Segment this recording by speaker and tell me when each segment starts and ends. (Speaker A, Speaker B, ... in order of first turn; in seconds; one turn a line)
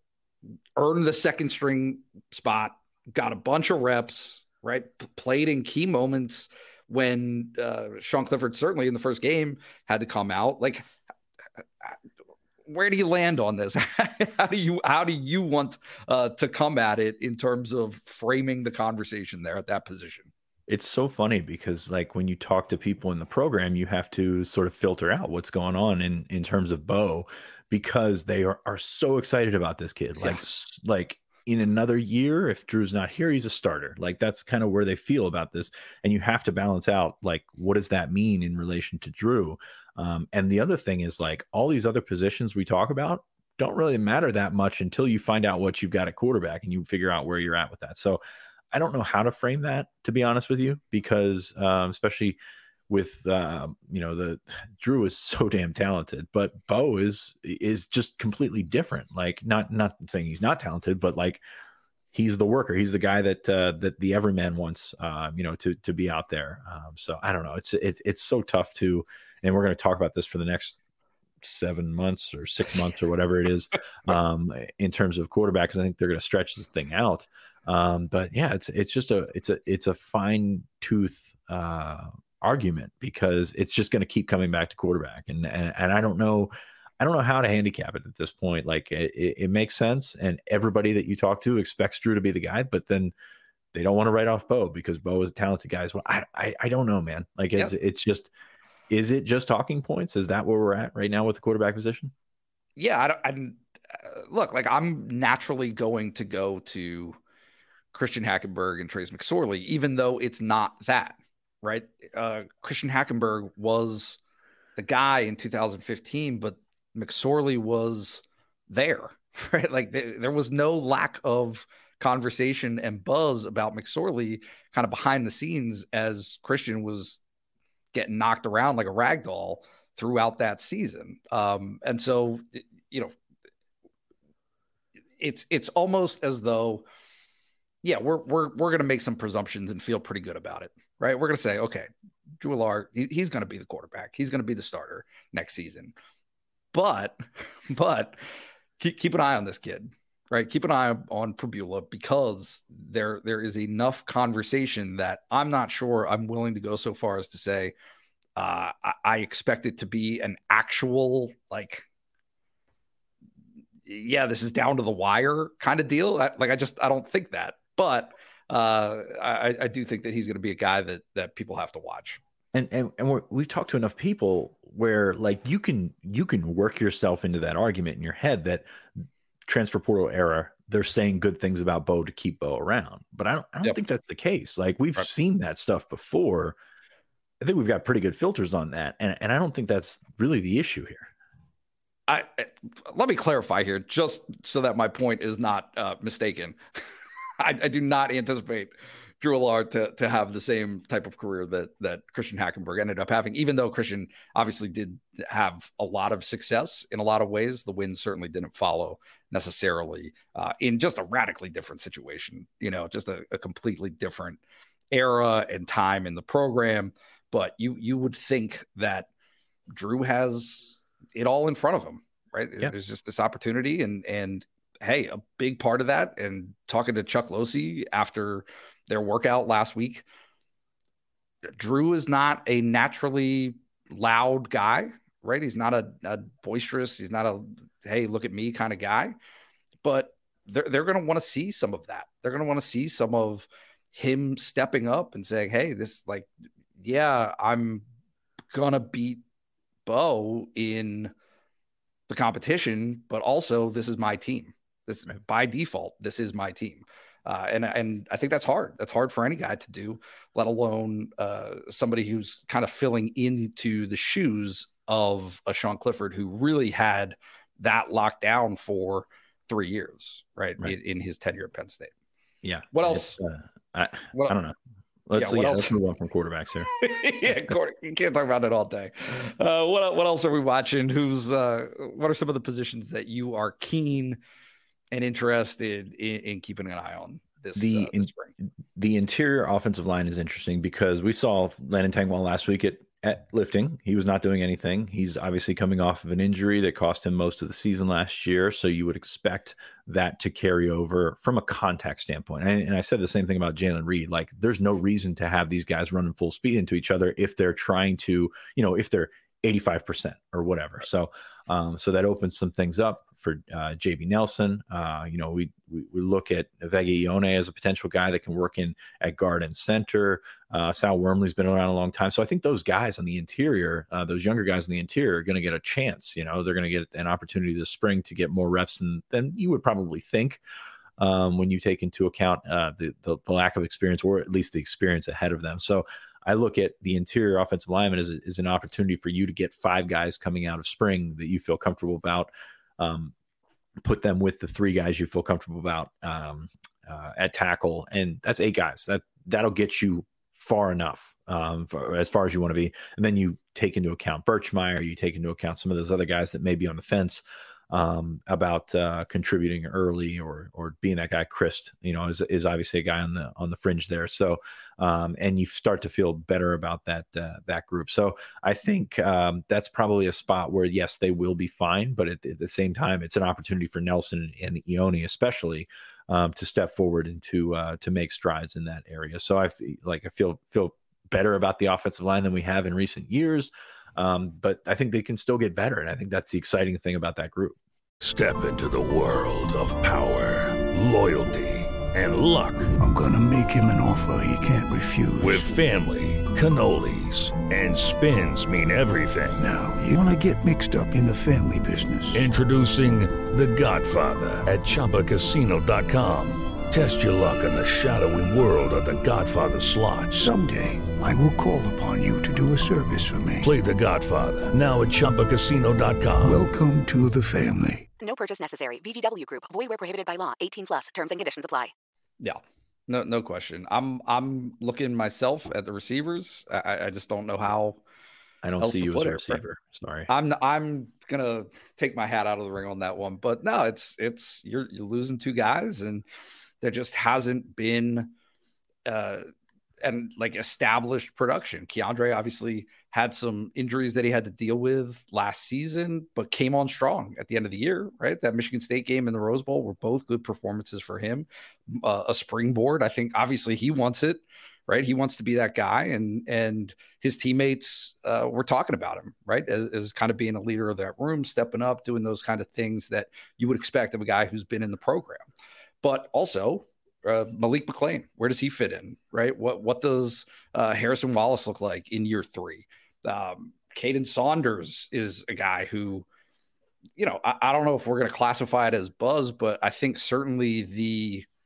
Speaker A: 0.8-10.9
Speaker A: 12.7-20.3
Speaker B: 20.7-48.2
Speaker B: 48.7-61.4
Speaker B: 62.1-70.8
Speaker B: 71.4-93.1
Speaker B: 93.7-98.3
Speaker B: 98.9-102.1
Speaker A: 102.8-107.2
Speaker A: 107.9-114.2
Speaker A: 114.8-127.2
Speaker A: 127.9-133.1
Speaker A: 135.2-136.9
Speaker A: 137.8-141.9
Speaker A: 142.4-145.9
Speaker A: 146.7-148.2
Speaker A: 148.8-157.8
Speaker A: 158.4-161.8
Speaker A: 163.9-172.2
Speaker B: 172.5-178.7
Speaker B: 179.5-186.6
Speaker B: 187.4-191.1
Speaker A: 192.1-196.6
Speaker A: 197.4-214.4
Speaker A: 214.9-219.1
Speaker A: 219.7-230.1
Speaker A: 231.6-239.2
Speaker A: 239.8-247.8
Speaker A: 248.5-249.2
Speaker A: 249.9-251.1
Speaker A: 252.1-271.9
Speaker B: 272.4-274.6
Speaker A: 272.7-273.2
Speaker B: 275.1-276.7
Speaker A: 275.2-275.8
Speaker A: 276.8-284.2
Speaker A: 284.9-288.3
Speaker B: 287.6-288.1
Speaker B: 288.8-330.4
Speaker B: 331.0-343.1
Speaker B: 343.8-387.6
Speaker C: 388.0-392.8
Speaker D: 392.8-395.5
Speaker C: 395.2-399.5
Speaker D: 399.4-402.3
Speaker C: 402.1-410.3
Speaker D: 410.2-413.5
Speaker C: 413.4-416.5
Speaker D: 416.2-417.9
Speaker E: 418.0-421.7
Speaker A: 422.2-427.8
Speaker B: 428.4-430.1
Speaker A: 428.6-429.4
Speaker A: 430.1-436.0
Speaker A: 436.6-438.1
Speaker A: 438.9-439.3
Speaker A: 439.8-465.3
Speaker A: 465.8-476.1
Speaker A: 477.0-481.3